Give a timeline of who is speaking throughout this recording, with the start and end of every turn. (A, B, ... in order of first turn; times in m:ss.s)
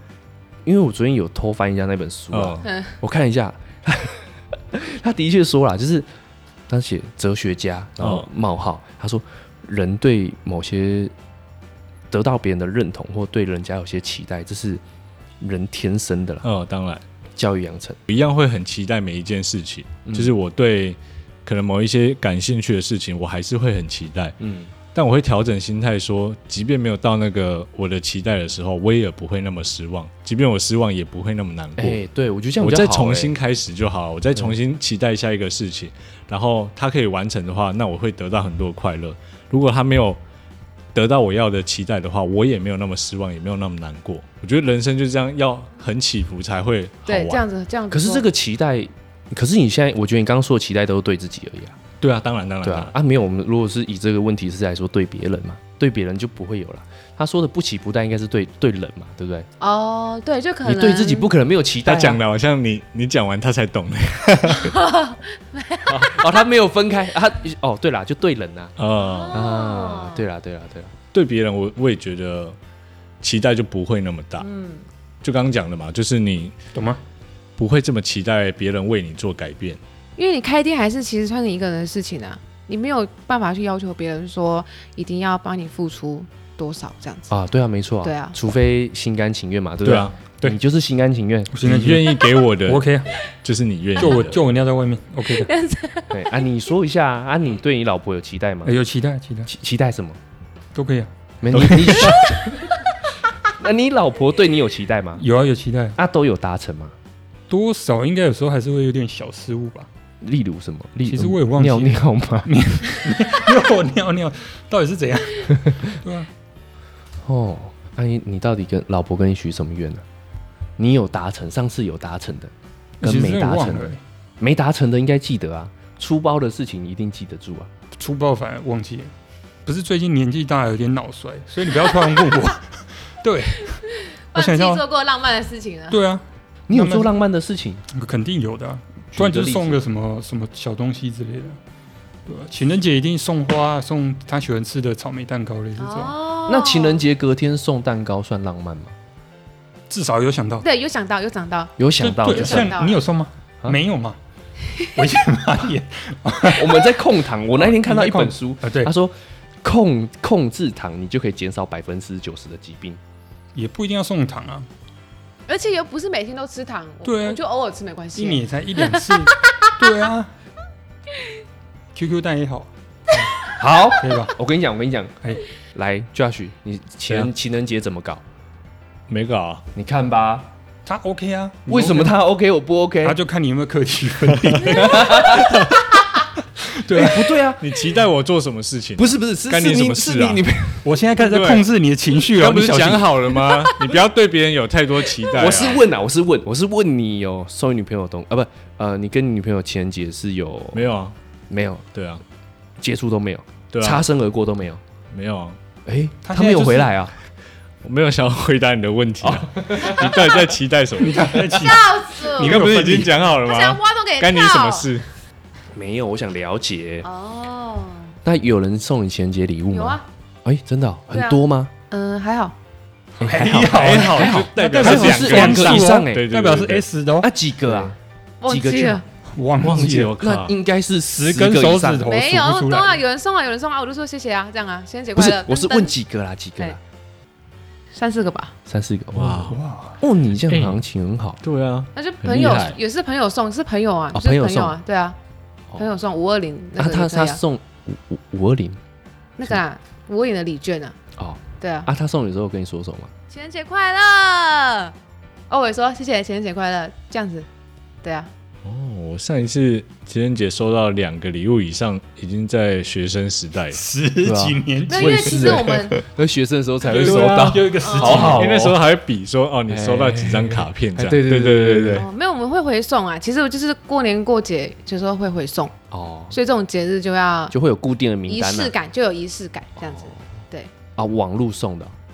0:00.6-0:06.1 A
0:02.3-0:02.6 B
0:02.6-0:02.9 C
0:06.7-0:11.1 A
0:08.0-0:08.3 B
0:12.1-0:14.8 A
0:15.4-0:16.4 A
0:16.4-0:17.0 B
0:17.4-0:18.0 A
0:18.1-0:24.4 B
0:20.0-0:20.3 A
0:24.4-0:24.7 A
0:24.9-0:32.0 B
0:31.8-0:33.3 A
0:32.6-0:40.2 B
0:40.9-0:47.4 B
0:47.0-0:48.2 C
0:47.9-0:51.8 A
0:52.0-0:52.9 B
0:52.6-0:59.5 A
0:59.6-1:01.3 C
1:00.6-1:02.2 A
1:01.8-1:04.8 B
1:04.6-1:06.4 C
1:05.8-1:08.7 A
1:08.8-1:09.5 B
1:09.0-1:10.2 C
1:09.3-1:10.9 A
1:11.1-1:12.6 B
1:13.2-1:14.5 B
1:14.4-1:14.8 C
1:15.2-1:16.6 B
1:16.7-1:17.0 D
1:17.6-1:19.8 B
1:20.2-1:27.4 C
1:27.3-1:31.6 A
1:28.0-1:28.4 C
1:29.8-1:30.6 B
1:31.5-1:33.1 D
1:31.6-1:34.4 B
1:34.0-1:35.5 D
1:35.2-1:36.5 C
1:36.1-1:38.7 A
1:38.6-1:39.5 D
1:39.5-1:40.2 A
1:40.7-1:42.2 D
1:41.4-1:42.7 A
1:41.6-1:42.0 B
1:43.5-1:45.2 A
1:45.2-1:46.0 D
1:46.0-1:46.9 A
1:47.5-1:49.9 D
1:50.2-1:52.5 A
1:51.0-1:56.3 D
1:55.6-1:55.8 A
1:57.2-2:00.0 A
2:00.8-2:07.7 A
2:03.0-2:04.0 D
2:08.0-2:09.1 D
2:09.6-2:13.8 D
2:13.7-2:16.0 C
2:14.3-2:14.8 D
2:15.9-2:17.1 D
2:16.7-2:17.8 A
2:17.9-2:21.6 D
2:19.1-2:19.8 A
2:22.2-2:26.1 D
2:25.8-2:27.0 C
2:26.4-2:28.9 A
2:29.9-2:30.6 D
2:30.6-2:33.0 C
2:31.8-2:32.8 A
2:32.0-2:34.2 D
2:34.9-2:36.9 D
2:36.4-2:43.0 A
2:37.5-2:38.9 D
2:43.5-2:44.7 D
2:45.5-2:49.7 C
2:47.0-2:47.4 D
2:48.1-2:50.3 D
2:51.9-2:53.3 D
2:53.4-2:55.2 A
2:54.0-2:54.3 D
2:55.7-2:58.2 A
2:59.1-2:59.6 B
2:59.7-3:00.5 A
3:00.8-3:02.2 D
3:01.7-3:03.2 A
3:03.0-3:05.6 D
3:04.6-3:05.7 A
3:06.6-3:07.3 D
3:06.9-3:07.8 A
3:07.6-3:10.4 B
3:09.0-3:10.9 A
3:10.8-3:13.2 D
3:11.2-3:11.7 B
3:12.3-3:15.8 B
3:15.3-3:20.8 A
3:20.7-3:21.1 B
3:21.5-3:21.8 A
3:21.9-3:22.2 B
3:22.8-3:24.8 A
3:23.7-3:24.0 B
3:25.1-3:25.6 B
3:25.8-3:27.1 A
3:26.2-3:27.0 D
3:27.8-3:31.6 B
3:29.2-3:30.2 A
3:31.0-3:33.2 D
3:31.5-3:32.6 C
3:32.4-3:35.1 B
3:33.4-3:34.9 C
3:35.7-3:37.1 A
3:37.0-3:38.2 C
3:38.2-3:41.7 A
3:39.7-3:40.0 C
3:41.1-3:42.5 C
3:43.2-3:47.3 D
3:43.2-3:46.2 A
3:43.7-3:46.8 B
3:47.2-3:49.0 A
3:48.4-3:49.0 C
3:49.2-3:50.1 D
3:49.6-3:50.5 B
3:50.2-3:52.1 A
3:51.1-3:53.0 D
3:52.0-3:55.9 C
3:55.2-3:56.8 A
3:57.9-3:58.5 C
3:58.6-4:01.4 A
3:59.1-3:59.6 B
3:59.4-4:00.0 D
4:00.5-4:00.8 B
4:01.4-4:02.8 B
4:01.9-4:05.2 C
4:04.1-4:04.8 A
4:05.8-4:07.4 C
4:06.8-4:08.8 A
4:09.4-4:11.0 C
4:11.2-4:13.1 A
4:11.6-4:11.9 C
4:13.3-4:14.9 C
4:15.5-4:17.5 C
4:18.0-4:18.3 C
4:18.6-4:23.8 B
4:23.7-4:25.8 D
4:24.2-4:28.8 A
4:24.9-4:26.0 C
4:26.8-4:28.5 D
4:26.9-4:32.0 B
4:27.8-4:28.4 C
4:29.7-4:32.1 A
4:31.9-4:35.7 C
4:35.9-4:36.4 A
4:36.3-4:37.5 C
4:37.5-4:38.7 A
4:38.3-4:40.7 C
4:39.8-4:40.1 A
4:41.0-4:41.9 A